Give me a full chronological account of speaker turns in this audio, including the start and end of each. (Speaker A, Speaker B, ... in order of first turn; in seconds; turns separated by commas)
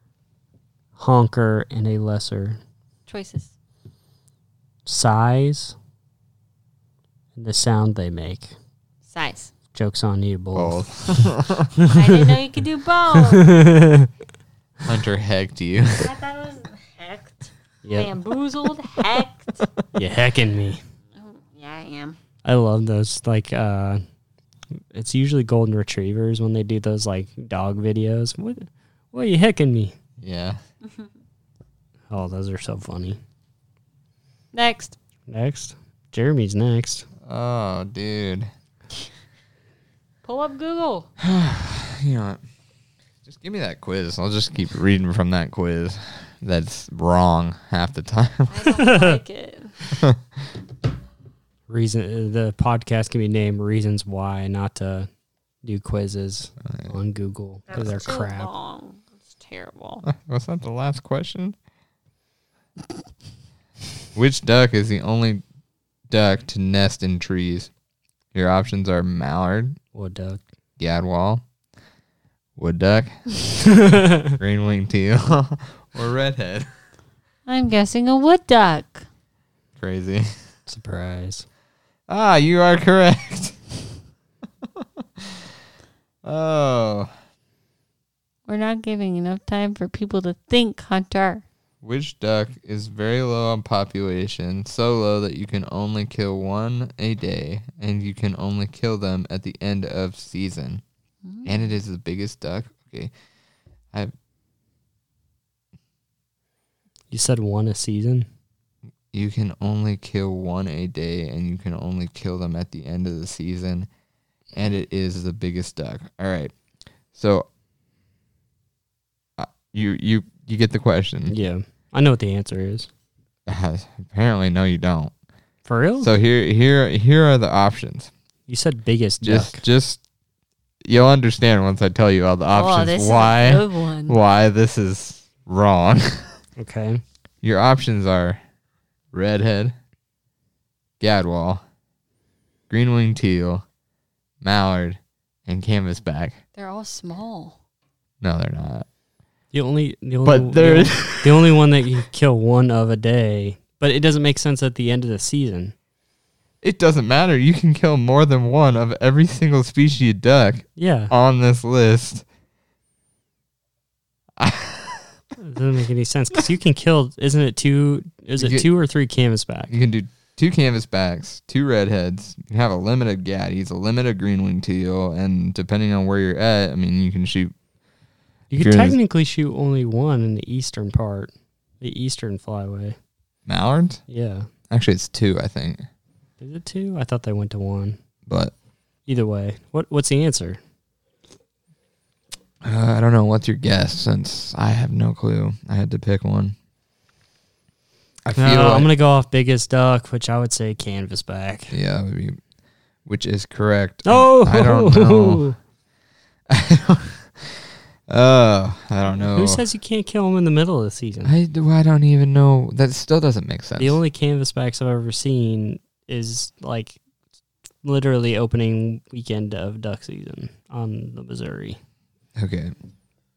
Speaker A: 1.0-2.6, Speaker B: 3.1-3.5, Speaker A: 4.9-5.8, Speaker A: 7.4-8.5, Speaker B: 9.1-9.5, Speaker A: 9.7-12.2, Speaker C: 10.5-11.7, Speaker B: 11.9-13.6, Speaker A: 13.2-14.1, Speaker C: 14.8-16.1, Speaker B: 16.0-19.7, Speaker A: 17.8-18.1, Speaker A: 19.9-20.8, Speaker B: 21.2-22.2, Speaker A: 22.4-24.0, Speaker A: 24.9-29.9, Speaker C: 30.2-30.6, Speaker A: 32.1-33.2, Speaker B: 34.5-35.0, Speaker A: 35.3-37.1, Speaker C: 37.2-38.5, Speaker B: 40.2-41.1, Speaker C: 41.2-42.4, Speaker C: 43.2-48.7, Speaker B: 48.5-49.8, Speaker A: 48.8-49.2, Speaker C: 49.9-50.2, Speaker A: 51.7-55.1, Speaker A: 55.6-58.5, Speaker C: 56.6-56.9, Speaker B: 57.7-60.0, Speaker C: 60.0-61.6, Speaker C: 64.2-65.4, Speaker C: 66.1-67.7, Speaker C: 68.3-69.8, Speaker A: 69.9-70.4, Speaker C: 70.8-71.4, Speaker C: 72.6-73.3, Speaker A: 73.7-74.3, Speaker C: 74.2-76.7, Speaker B: 77.5-79.1, Speaker C: 79.8-80.3, Speaker A: 80.7-81.5, Speaker C: 82.1-83.6, Speaker C: 84.7-85.5, Speaker C: 86.2-87.1, Speaker B: 88.5-91.4, Speaker C: 91.8-100.8, Speaker B: 101.2-101.5, Speaker C: 101.5-103.1, Speaker A: 107.1-108.3, Speaker C: 109.1-113.9, Speaker C: 114.5-116.5, Speaker C: 117.1-117.5, Speaker C: 119.4-121.3, Speaker A: 121.3-122.9, Speaker C: 123.5-125.1, Speaker A: 125.7-126.1, Speaker C: 126.0-128.1, Speaker A: 128.5-129.6, Speaker C: 129.2-130.0, Speaker C: 130.8-136.4, Speaker B: 132.5-134.2, Speaker A: 136.6-137.0, Speaker C: 137.4-138.4, Speaker C: 139.1-139.8, Speaker C: 141.0-141.6, Speaker C: 142.7-143.7, Speaker C: 144.4-146.4, Speaker B: 146.6-147.6, Speaker C: 148.2-148.9, Speaker A: 149.5-155.7, Speaker C: 150.2-151.6, Speaker C: 156.6-162.2, Speaker A: 160.8-161.1, Speaker C: 164.4-165.1, Speaker A: 165.4-169.7, Speaker C: 168.4-168.7, Speaker C: 169.7-177.5, Speaker A: 178.5-183.0, Speaker C: 178.6-178.9, Speaker C: 183.5-184.0, Speaker A: 184.1-184.5, Speaker C: 184.7-185.9, Speaker A: 186.4-188.0, Speaker C: 188.3-188.5, Speaker A: 189.1-190.6, Speaker C: 192.6-196.6, Speaker C: 198.2-198.9, Speaker A: 198.3-201.7, Speaker C: 201.7-202.4, Speaker C: 203.1-205.4, Speaker A: 204.1-205.6, Speaker C: 206.5-209.6, Speaker A: 209.2-211.3, Speaker C: 211.2-214.0, Speaker A: 213.8-217.0, Speaker A: 217.8-221.8, Speaker C: 222.4-222.7